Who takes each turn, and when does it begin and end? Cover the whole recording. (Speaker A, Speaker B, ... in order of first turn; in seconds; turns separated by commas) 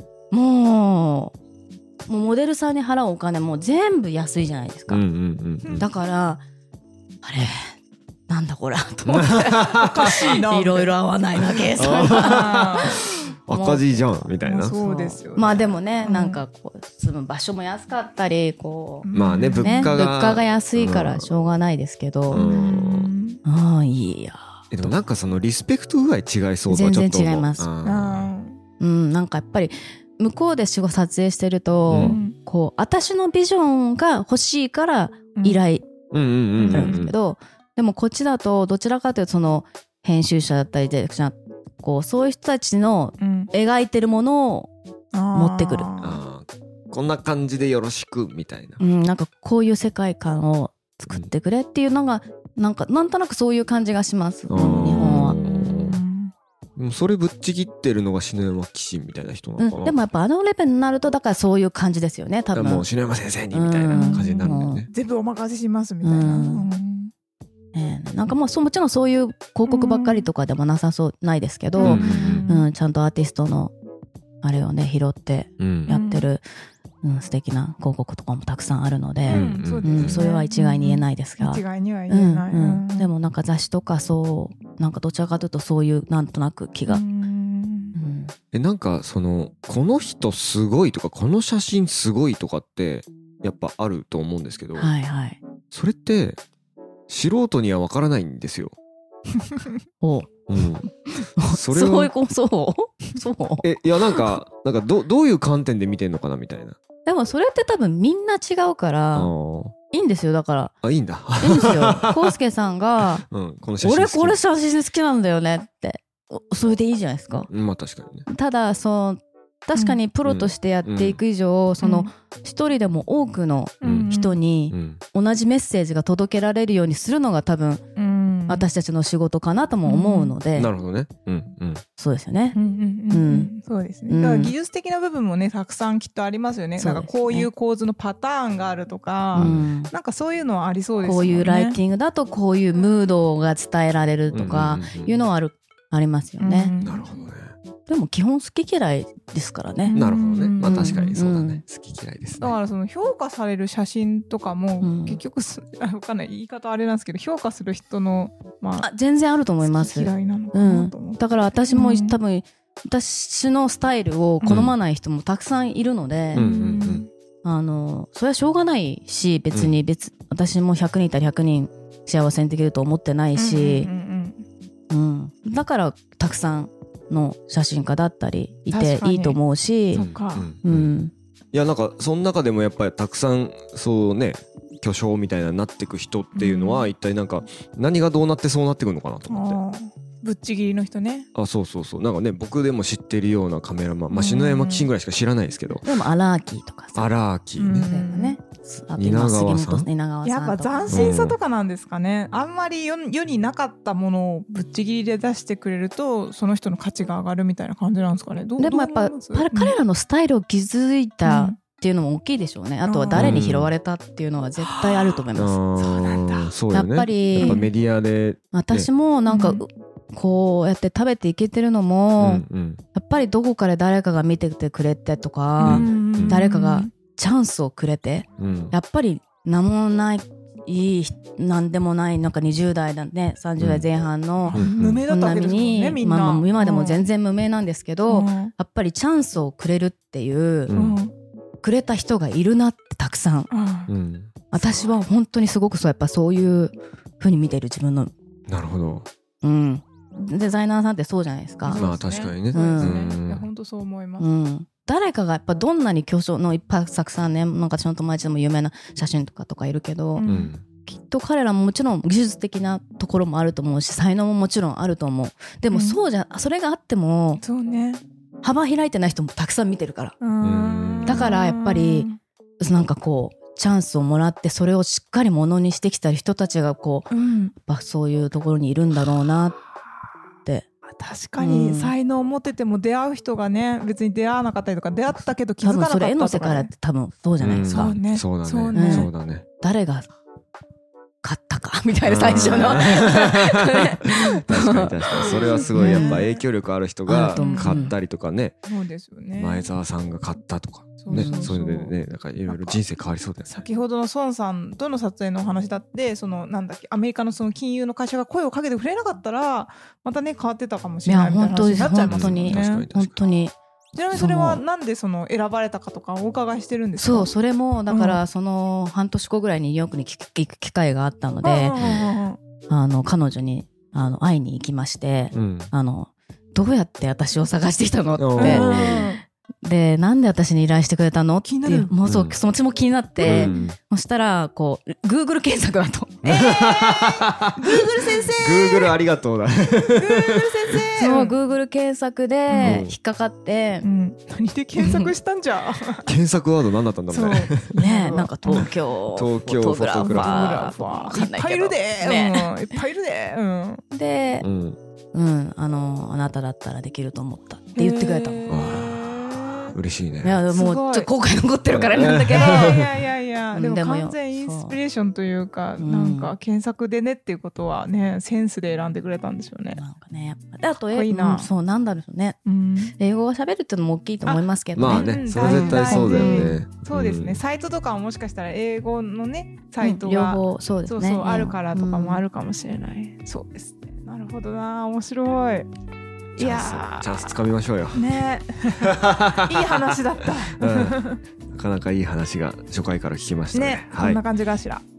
Speaker A: 0.3-1.3, Speaker A: 2.0-5.0, Speaker B: 4.9-5.8, Speaker C: 5.6-5.9, Speaker A: 5.8-6.4, Speaker A: 7.2-7.8, Speaker A: 8.3-14.0, Speaker B: 9.1-10.2, Speaker C: 9.7-10.9, Speaker B: 11.7-14.8, Speaker C: 12.1-13.0, Speaker C: 14.4-16.4, Speaker A: 14.7-22.5, Speaker C: 19.0-19.9, Speaker B: 19.1-21.3, Speaker B: 22.3-23.1, Speaker C: 22.3-23.4, Speaker A: 23.4-24.9, Speaker B: 24.7-28.3, Speaker A: 26.7-27.7, Speaker C: 27.8-28.6, Speaker A: 28.8-35.9, Speaker B: 31.9-32.2, Speaker C: 32.0-32.4, Speaker B: 36.1-37.1, Speaker C: 36.6-37.0, Speaker A: 36.7-44.7, Speaker C: 43.2-43.5, Speaker C: 45.1-46.2, Speaker A: 45.3-45.9, Speaker B: 46.0-48.8, Speaker A: 48.8-55.4, Speaker B: 54.5-56.0, Speaker C: 54.6-56.3, Speaker B: 56.8-59.9, Speaker A: 59.6-62.9, Speaker B: 62.5-64.9, Speaker A: 63.5-64.8, Speaker C: 63.9-67.1, Speaker A: 66.0-66.7, Speaker A: 67.7-73.7, Speaker C: 69.7-70.3, Speaker C: 71.8-72.7, Speaker B: 71.8-72.5, Speaker A: 74.4-76.4, Speaker B: 75.6-75.9, Speaker C: 75.9-76.3, Speaker A: 77.0-87.0, Speaker C: 79.3-83.1, Speaker B: 79.3-80.2, Speaker C: 86.9-88.0, Speaker A: 87.9-88.3, Speaker B: 88.5-94.9, Speaker A: 94.8-95.4, Speaker B: 95.7-96.4, Speaker B: 97.1-98.7, Speaker A: 100.0-103.7, Speaker B: 100.5-102.1, Speaker B: 103.6-106.8, Speaker A: 107.0-109.3, Speaker B: 109.1-109.7, Speaker A: 109.9-110.7, Speaker B: 110.8-112.3, Speaker A: 111.4-113.2, Speaker B: 113.2-114.3, Speaker A: 113.8-117.5, Speaker B: 117.5-118.2, Speaker A: 118.3-127.8, Speaker C: 119.7-120.0, Speaker B: 120.2-121.2, Speaker C: 121.8-122.1, Speaker C: 123.8-124.4, Speaker B: 123.8-124.1, Speaker B: 124.7-125.0, Speaker C: 128.0-128.7, Speaker A: 128.5-130.7, Speaker C: 129.8-130.3, Speaker B: 130.5-131.8, Speaker A: 132.0-132.6, Speaker C: 132.5-141.8, Speaker A: 133.1-133.5, Speaker A: 134.1-134.5, Speaker A: 136.8-137.5, Speaker A: 139.3-139.9, Speaker B: 139.3-139.7, Speaker A: 141.0-146.7, Speaker B: 144.3-145.2, Speaker C: 146.4-147.3, Speaker B: 146.8-147.5, Speaker A: 147.9-150.1, Speaker C: 149.8-151.2, Speaker B: 149.9-152.6, Speaker A: 150.6-151.6, Speaker C: 152.4-158.9, Speaker A: 154.8-155.2, Speaker A: 158.8-166.5, Speaker C: 159.6-162.2, Speaker B: 164.4-164.7, Speaker C: 166.3-167.1, Speaker B: 166.3-167.1, Speaker A: 167.4-173.9, Speaker C: 173.3-174.4, Speaker A: 174.9-180.0, Speaker C: 178.7-179.4, Speaker C: 179.9-180.5, Speaker B: 179.9-180.9, Speaker A: 180.6-181.1, Speaker B: 181.5-189.6, Speaker C: 186.3-186.9, Speaker C: 189.3-191.3, Speaker B: 191.3-195.9, Speaker C: 194.1-194.9, Speaker A: 195.8-197.1, Speaker B: 196.9-198.0, Speaker C: 197.6-198.4, Speaker A: 197.8-201.2, Speaker B: 198.9-199.9, Speaker C: 200.2-209.8, Speaker B: 200.9-201.4, Speaker A: 208.6-215.6, Speaker C: 211.2-211.6, Speaker C: 212.8-213.3, Speaker B: 213.1-213.7, Speaker C: 214.6-215.2, Speaker B: 215.3-218.9, Speaker C: 215.8-216.5, Speaker A: 216.7-217.6, Speaker C: 217.4-217.7, Speaker A: 218.5-240.7, Speaker C: 219.3-219.6, Speaker B: 222.2-222.8, Speaker B: 225.6-226.4, Speaker C: 225.6-226.9, Speaker B: 228.4-228.7, Speaker B: 233.6-233.8, Speaker C: 234.4-237.0, Speaker B: 234.5-235.0, Speaker C: 238.1-238.5, Speaker B: 240.7-241.0, Speaker C: 240.7-241.1, Speaker A: 241.6-243.5, Speaker C: 243.5-243.9, Speaker B: 243.9-244.3, Speaker A: 244.5-248.1, Speaker B: 248.5-249.1, Speaker A: 249.4-251.9, Speaker C: 251.6-254.2, Speaker B: 251.7-253.5, Speaker A: 252.5-253.0, Speaker A: 254.2-260.2, Speaker C: 260.1-260.5, Speaker B: 260.2-260.6, Speaker A: 260.9-267.4, Speaker C: 265.7-266.0, Speaker C: 267.4-268.0, Speaker A: 268.4-270.1, Speaker C: 270.2-272.2, Speaker B: 270.4-271.4, Speaker A: 271.0-272.1, Speaker A: 272.6-279.6, Speaker C: 277.1-277.5, Speaker C: 280.9-286.7, Speaker A: 281.4-281.9, Speaker A: 285.6-287.9, Speaker B: 287.4-289.4, Speaker C: 287.7-289.1, Speaker A: 288.7-289.1, Speaker A: 289.6-290.1, Speaker A: 291.2-296.2, Speaker B: 292.0-298.6, Speaker C: 292.3-292.9, Speaker C: 294.5-296.4, Speaker A: 297.1-297.9, Speaker C: 297.3-297.9, Speaker C: 298.7-299.7, Speaker B: 299.3-303.7, Speaker C: 301.0-301.9, Speaker A: 301.1-301.5, Speaker C: 302.5-302.8, Speaker C: 303.4-312.9, Speaker A: 311.0-313.6, Speaker B: 312.1-313.3, Speaker C: 313.9-317.3, Speaker A: 314.1-314.6, Speaker A: 317.0-321.8, Speaker C: 317.9-318.2, Speaker C: 321.4-322.4, Speaker B: 321.8-322.1, Speaker A: 322.7-329.1, Speaker B: 325.3-325.7, Speaker B: 328.2-329.1, Speaker C: 328.4-329.2, Speaker A: 329.6-336.4, Speaker C: 331.4-331.9, Speaker B: 332.0-332.4, Speaker C: 333.2-333.6, Speaker B: 333.2-333.8, Speaker C: 336.2-338.9, Speaker B: 336.3-340.8, Speaker C: 339.8-341.4, Speaker A: 341.0-343.9, Speaker C: 342.5-342.8, Speaker B: 342.6-342.9, Speaker C: 343.8-346.1, Speaker A: 344.8-345.1, Speaker B: 346.0-347.7, Speaker C: 347.1-348.7, Speaker A: 347.8-352.8, Speaker B: 348.5-350.7, Speaker C: 350.0-353.8, Speaker A: 353.9-354.4, Speaker B: 354.4-354.8, Speaker A: 355.1-358.5, Speaker C: 357.8-359.8, Speaker B: 358.5-360.4, Speaker A: 360.2-362.8, Speaker C: 360.5-361.1, Speaker B: 361.7-362.9, Speaker C: 362.1-369.8, Speaker A: 363.5-364.8, Speaker A: 365.8-366.3, Speaker A: 369.7-372.4, Speaker C: 370.8-371.5, Speaker C: 372.4-372.9, Speaker A: 373.0-376.5, Speaker C: 374.2-385.7, Speaker B: 374.8-377.4, Speaker A: 379.8-382.2, Speaker C: 386.4-387.4, Speaker B: 386.4-388.1, Speaker C: 387.9-391.2, Speaker B: 388.8-391.0, Speaker B: 391.5-394.2, Speaker C: 393.5-394.8